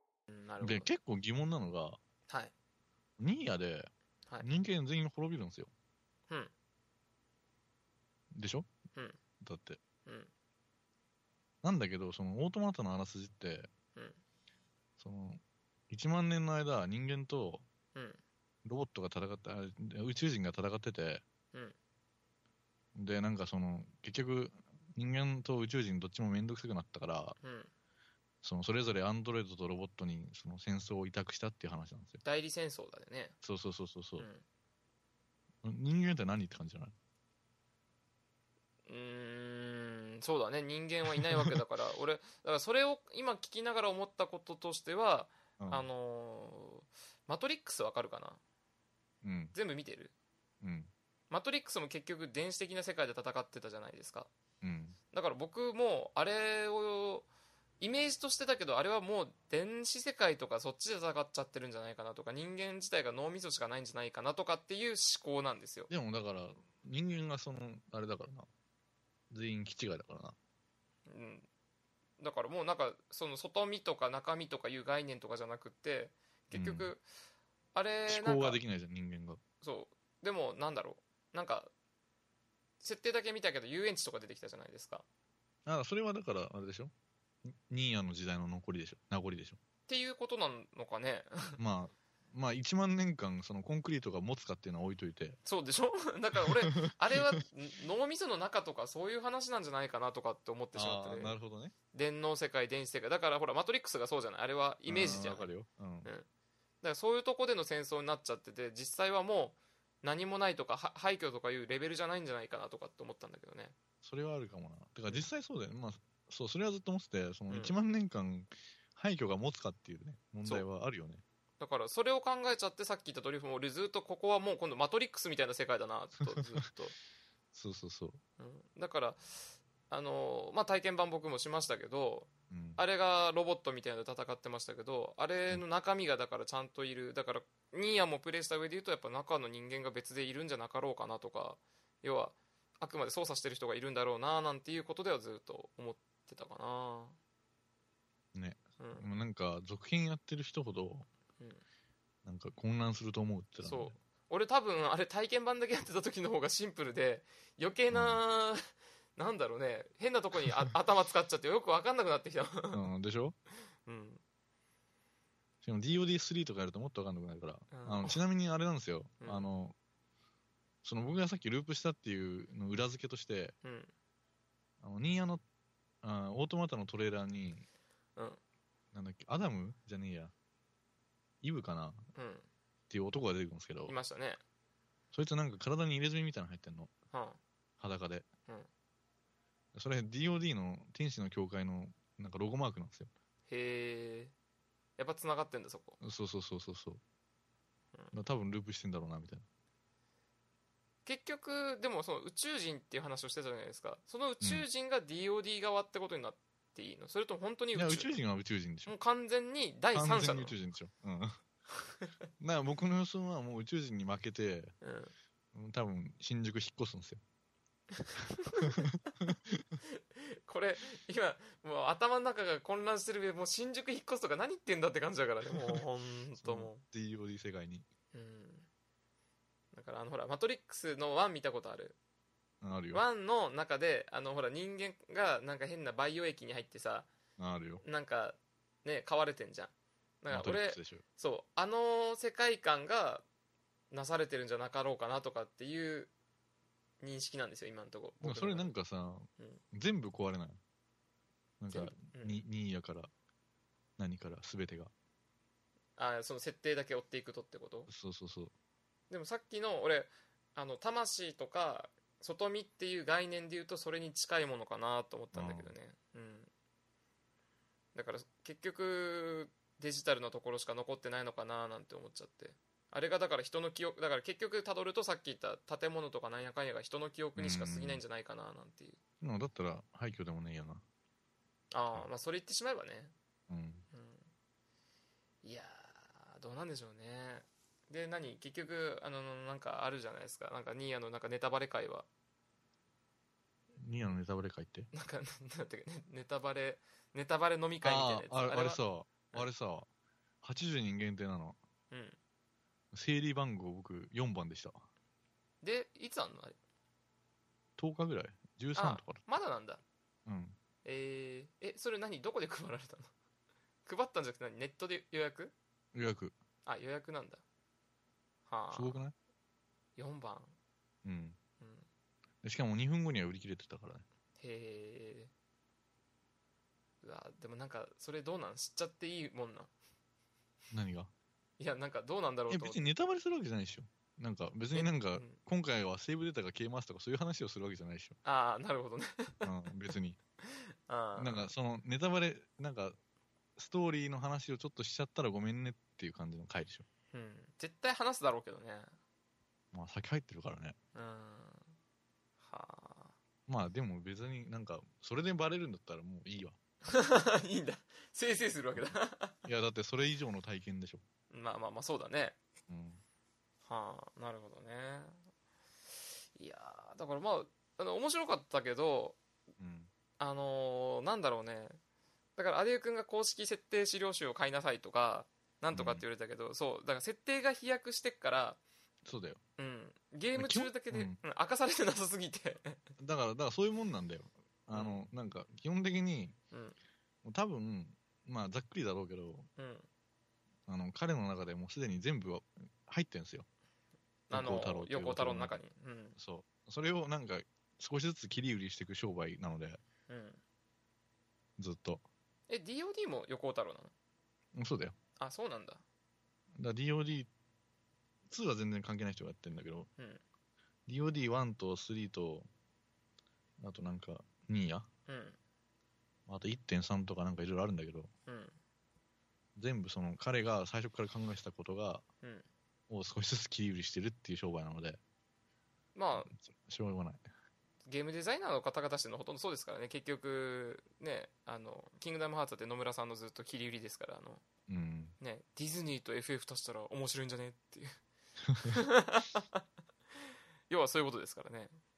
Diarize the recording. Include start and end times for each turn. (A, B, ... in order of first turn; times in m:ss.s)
0:00.3-0:00.9 A
0:00.6-0:02.0 B
0:02.3-0:02.5 A
0:03.2-0:05.7 B
0:08.3-0:08.7 B
0:09.4-0:09.8 B
0:10.0-0:10.3 A
0:11.6-0:13.7 B
0:15.0-0:17.6 B
0:18.0-0:18.2 A
0:18.6-0:21.2 B
0:23.0-0:27.4 B
0:27.4-0:27.7 A
0:28.4-0:32.2 B
0:32.2-0:33.4 A
0:33.4-0:34.3 B
0:34.2-0:34.4 A
0:35.6-0:36.9 B
0:38.9-0:48.4 A
0:41.2-0:41.6 B
0:45.6-0:45.9 B
0:49.2-0:49.6 B
0:49.5-0:50.1 A
0:50.6-0:50.9 B
0:51.3-0:54.3 A
0:54.6-0:55.0 B
0:55.1-0:57.3 A
0:57.8-1:05.9 A
1:05.9-1:08.5 B
1:09.3-1:10.4 B
1:11.1-1:11.5 A
1:12.2-1:17.0 A
1:16.5-1:16.9 B
1:17.7-1:18.6 A
1:18.1-1:19.4 B
1:19.6-1:21.7 A
1:22.8-1:25.0 A
1:25.7-1:26.9 B
1:27.4-1:29.6 B
1:29.9-1:31.6 A
1:31.6-1:35.4 B
1:35.4-1:41.4 A
1:36.8-1:37.3 B
1:40.7-1:41.7 B
1:41.9-1:45.5 A
1:44.9-1:46.1 B
1:46.8-1:53.8 A
1:54.0-2:01.2 B
1:57.5-1:57.8 A
2:01.6-2:07.0 A
2:07.5-2:08.2 B
2:08.4-2:27.2 A
2:12.5-2:12.8 B
2:28.3-2:31.1 B
2:28.8-2:29.1 A
2:32.2-2:33.9 B
2:33.6-2:38.6 A
2:37.9-2:38.2 B
2:39.2-2:42.9 A
2:42.7-2:43.4 B
2:43.8-2:44.2 A
2:45.6-2:49.8 B
2:47.7-2:48.2 A
2:49.2-2:49.5 A
2:50.8-2:53.6 B
2:53.6-2:53.9 A
2:54.8-2:55.4 B
2:56.0-2:57.7 B
2:58.9-3:00.3 B
3:01.4-3:02.1 B
3:02.2-3:02.5 A
3:02.9-3:04.0 B
3:03.9-3:04.4 A
3:05.1-3:06.9 B
3:07.1-3:07.4 A
3:07.8-3:08.3 B
3:09.7-3:13.1 B
3:13.5-3:14.3 A
3:15.0-3:16.0 A
3:16.0-3:17.0 B
3:18.1-3:19.4 B
3:21.1-3:28.1 A
3:27.8-3:28.9 B
3:28.9-3:30.6 A
3:29.9-3:31.4 B
3:32.4-3:34.7 B
3:34.8-3:35.1 A
3:35.5-3:37.2 B
3:38.0-3:38.8 A
3:38.7-3:39.6 B
3:40.5-3:46.8 A
3:45.6-3:45.8 B
3:46.4-3:47.9 B
3:48.1-3:48.7 A
3:49.7-3:52.0 A
3:52.6-3:53.0 B
3:52.9-3:57.1 A
3:57.4-3:57.8 B
3:57.8-4:03.2 A
4:00.3-4:01.0 B
4:03.9-4:06.1 A
4:07.0-4:08.7 A
4:08.2-4:10.6 B
4:11.6-4:13.1 B
4:11.7-4:12.4 A
4:14.0-4:14.9 B
4:16.0-4:17.9 A
4:17.9-4:18.5 B
4:19.1-4:26.5 A
4:25.3-4:25.7 B
4:28.0-4:39.0 A
4:37.4-4:38.0 B
4:39.2-4:40.8 B
4:41.7-4:43.1 A
4:43.5-4:43.8 B
4:43.9-4:44.3 A
4:45.4-4:52.1 A
4:53.8-4:54.9 B
4:54.9-4:58.8 A
4:57.8-4:59.9 B
5:00.4-5:01.6 B
5:01.9-5:02.2 A
5:02.9-5:04.8 B
5:05.6-5:06.6 A
5:07.8-5:09.2 B
5:08.8-5:09.8 A
5:10.3-5:10.6 B
5:10.8-5:13.1 A
5:13.8-5:15.5 A
5:15.9-5:16.4 B
5:16.7-5:17.4 A
5:18.5-5:19.0 A
5:18.7-5:19.1 B
5:20.0-5:20.6 A
5:21.0-5:21.4 B
5:21.6-5:21.9 A
5:22.4-5:24.0 B
5:24.4-5:25.3 A
5:27.0-5:29.7 A
5:30.7-5:31.1 B
5:31.6-5:32.8 A
5:32.5-5:38.2 B
5:34.7-5:35.4 A
5:38.2-5:39.5 A
5:39.4-5:40.2 B
5:40.5-5:41.5 A
5:41.2-5:43.0 B
5:43.6-5:46.8 B
5:47.1-5:49.0 A
5:49.7-5:50.8 B
5:51.0-5:51.7 A
5:52.4-5:53.1 A
5:53.5-5:56.6 B
5:56.9-5:59.4 A
5:59.4-6:01.0 B
6:01.3-6:02.4 A
6:02.7-6:03.0 B
6:03.7-6:05.2 A
6:06.4-6:09.2 A
6:09.6-6:09.9 B
6:10.2-6:11.8 A
6:12.4-6:18.6 A
6:15.7-6:16.0 B
6:19.0-6:19.4 B
6:19.6-6:22.8 A
6:20.4-6:21.2 B
6:23.0-6:26.4 B
6:24.7-6:25.1 A
6:26.5-6:26.8 A
6:27.2-6:29.5 B
6:29.6-6:29.9 A
6:30.7-6:33.5 B
6:34.3-6:35.6 B
6:34.3-6:36.2 A
6:36.2-6:39.8 B
6:40.1-6:40.4 A
6:41.6-6:42.0 B
6:42.5-6:43.9 A
6:44.5-6:45.0 B
6:45.2-6:45.8 A
6:46.6-6:47.3 B
6:48.3-6:49.9 B
6:50.0-6:50.2 A
6:50.9-6:52.5 B
6:53.6-6:54.9 B
6:55.1-6:55.4 A
6:56.3-6:58.1 B
6:58.3-6:58.6 A
6:59.6-7:02.0 B
7:02.9-7:05.0 B
7:06.0-7:06.3 A
7:06.2-7:07.2 B
7:07.9-7:14.4 A
7:14.7-7:15.2 B
7:15.2-7:18.0 A
7:18.6-7:19.6 A
7:20.7-7:21.8 A